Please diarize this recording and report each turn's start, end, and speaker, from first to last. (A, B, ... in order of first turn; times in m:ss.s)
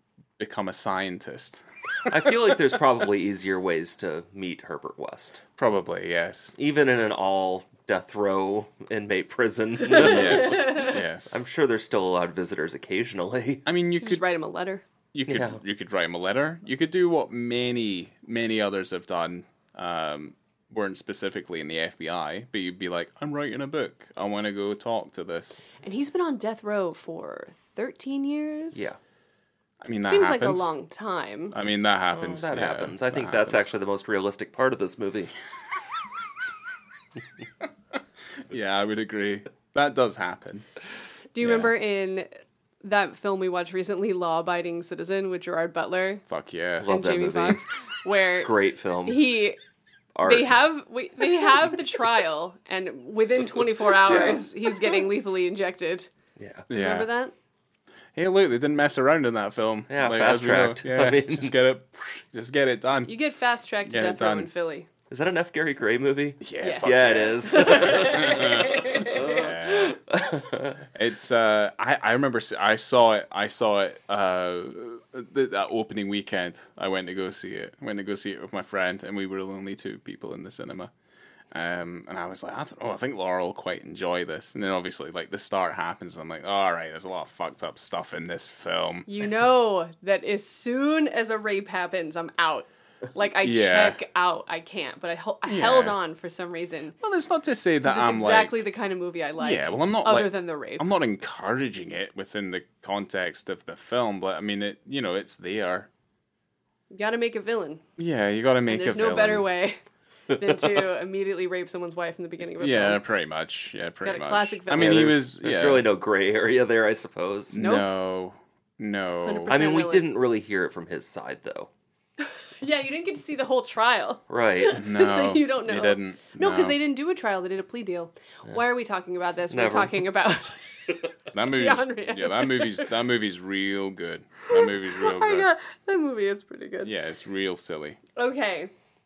0:00.4-0:02.1 A
0:02.1-0:05.4 B
0:05.6-0:06.5 A
0:06.6-0:13.6 B
0:09.9-0:10.9 C
0:10.0-0:11.3 A
0:13.6-0:14.2 A
0:14.0-0:14.8 C
0:15.1-0:25.6 A
0:15.3-0:15.6 B
0:25.8-0:28.9 C
0:29.8-0:30.7 A
0:30.0-0:31.5 C
0:31.5-0:33.6 A
0:32.1-0:35.3 B
0:38.4-0:40.6 A
0:41.3-0:42.3 C
0:41.4-0:41.7 A
0:42.8-0:46.2 C
0:46.3-0:46.9 A
0:46.8-0:47.6 B
0:46.9-0:48.5 C
0:48.4-0:49.3 B
0:49.0-0:49.6 C
0:50.1-0:50.6 B
0:50.2-0:56.1 C
0:54.0-0:54.9 B
0:56.4-0:56.7 B
0:56.7-0:57.1 A
0:56.7-0:57.3 C
0:58.1-1:03.2 A
0:59.9-1:01.5 B
1:03.0-1:04.9 C
1:03.8-1:04.5 A
1:05.1-1:10.8 B
1:06.4-1:10.0 A
1:06.6-1:09.4 C
1:10.9-1:20.9 A
1:21.5-1:29.2 A
1:29.1-1:37.0 C
1:33.4-1:34.0 A
1:35.4-1:36.0 A
1:37.0-1:38.6 A
1:37.8-1:40.8 C
1:39.4-1:45.9 A
1:46.9-1:47.8 C
1:48.0-1:49.5 A
1:48.7-1:49.8 C
1:50.3-1:53.0 C
1:50.4-1:50.7 B
1:52.6-1:55.8 A
1:54.0-1:55.1 C
1:54.7-1:57.6 B
1:57.5-1:59.6 A
1:57.6-1:57.9 C
1:59.2-2:00.1 C
1:59.5-2:01.7 B
2:02.6-2:12.9 C
2:04.3-2:04.8 B
2:04.7-2:06.8 A
2:09.5-2:10.0 B
2:11.3-2:15.5 A
2:14.5-2:16.9 C
2:16.8-2:18.0 A
2:18.2-2:18.7 C